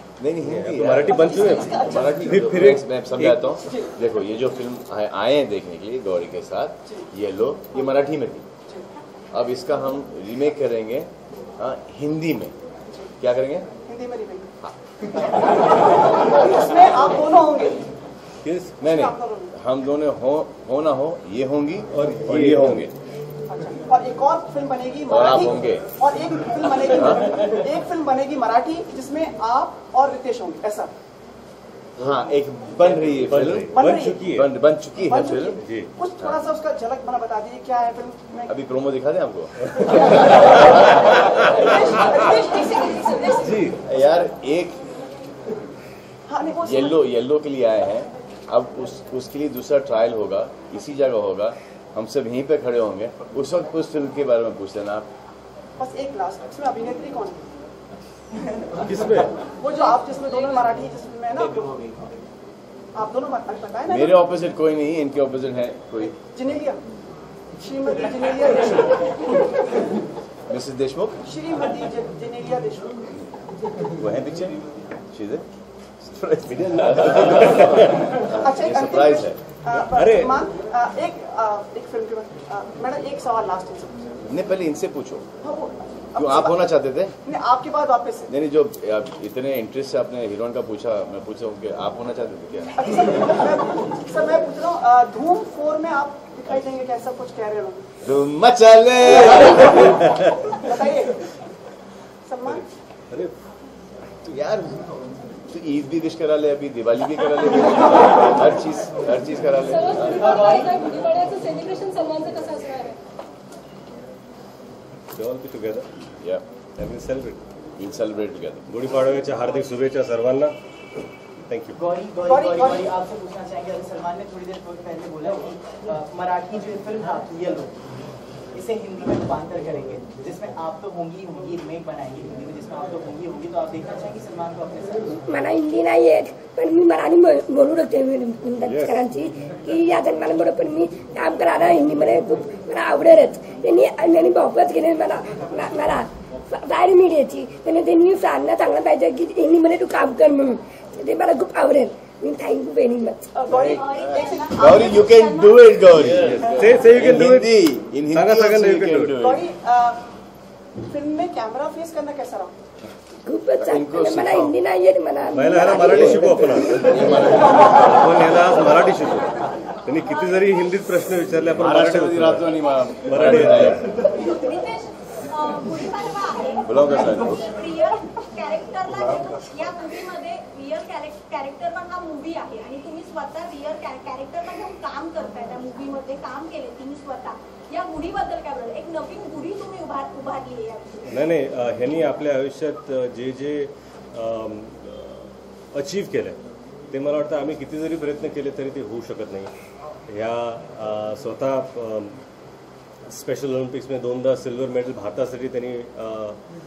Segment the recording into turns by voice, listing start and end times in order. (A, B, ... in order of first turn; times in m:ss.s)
0:00.2-0:08.4 A
0:00.5-0:03.4 B
0:01.1-0:02.3 C
0:03.6-0:03.9 C
0:09.3-0:12.5 A
0:13.2-0:13.7 A
0:13.9-0:14.5 C
0:15.2-0:17.8 C
0:18.4-0:18.8 B
0:18.8-0:22.9 A
0:18.8-0:19.5 C
0:21.9-0:22.8 B
0:23.5-0:30.9 C
0:25.1-0:25.9 A
0:27.0-0:27.2 A
0:32.0-0:33.7 A
0:33.1-0:34.5 B
0:33.7-0:34.2 C
0:34.3-0:35.6 A
0:35.0-0:38.5 C
0:35.6-0:35.9 B
0:38.5-0:41.2 A
0:39.9-0:40.7 C
0:41.3-0:43.6 C
0:43.7-0:44.9 A
0:46.3-0:47.0 C
0:46.6-0:55.1 A
0:55.8-0:57.4 C
0:58.8-0:59.3 B
0:59.5-1:01.6 C
1:02.9-1:04.2 C
1:03.9-1:06.2 A
1:06.0-1:06.8 C
1:07.5-1:09.8 C
1:10.5-1:11.2 A
1:11.2-1:13.0 C
1:14.0-1:14.6 A
1:15.1-1:15.4 A
1:16.0-1:19.4 A
1:16.5-1:18.1 B
1:18.3-1:24.2 C
1:19.8-1:20.4 B
1:24.2-1:25.2 A
1:25.4-1:26.7 C
1:26.1-1:27.2 A
1:27.2-1:28.3 C
1:28.3-1:32.8 A
1:32.7-1:37.8 C
1:38.0-1:40.1 A
1:39.4-1:39.9 C
1:40.5-1:41.3 C
1:42.2-1:42.7 C
1:44.2-1:44.8 A
1:45.5-1:50.5 A
1:49.7-1:53.0 D
1:50.2-1:50.7 E
1:55.1-1:55.8 B
1:56.2-1:56.4 A
1:56.8-1:57.4 B
1:57.8-1:58.7 A
1:58.7-2:00.5 B
2:01.5-2:01.8 B
2:01.8-2:07.7 E
2:02.2-2:03.0 C
2:08.5-2:15.2 E
2:15.2-2:33.3 F
2:33.3-2:34.9 C
2:33.5-2:39.4 A
2:33.6-2:36.0 G
2:36.0-2:37.6 B
2:38.1-2:39.2 B
2:39.2-2:40.0 C
2:40.8-2:42.5 C
2:43.2-2:46.6 F
2:43.6-2:44.6 A
2:45.3-2:49.3 B
2:45.8-2:48.0 A
2:49.8-2:53.9 B
2:50.0-2:51.0 G
2:51.4-2:53.9 A
2:52.4-2:53.0 G
2:54.0-3:11.0 G
2:56.6-2:57.4 A
3:11.0-3:16.4 B
3:16.9-3:19.5 B
3:20.1-3:22.2 B
3:23.1-3:26.4 B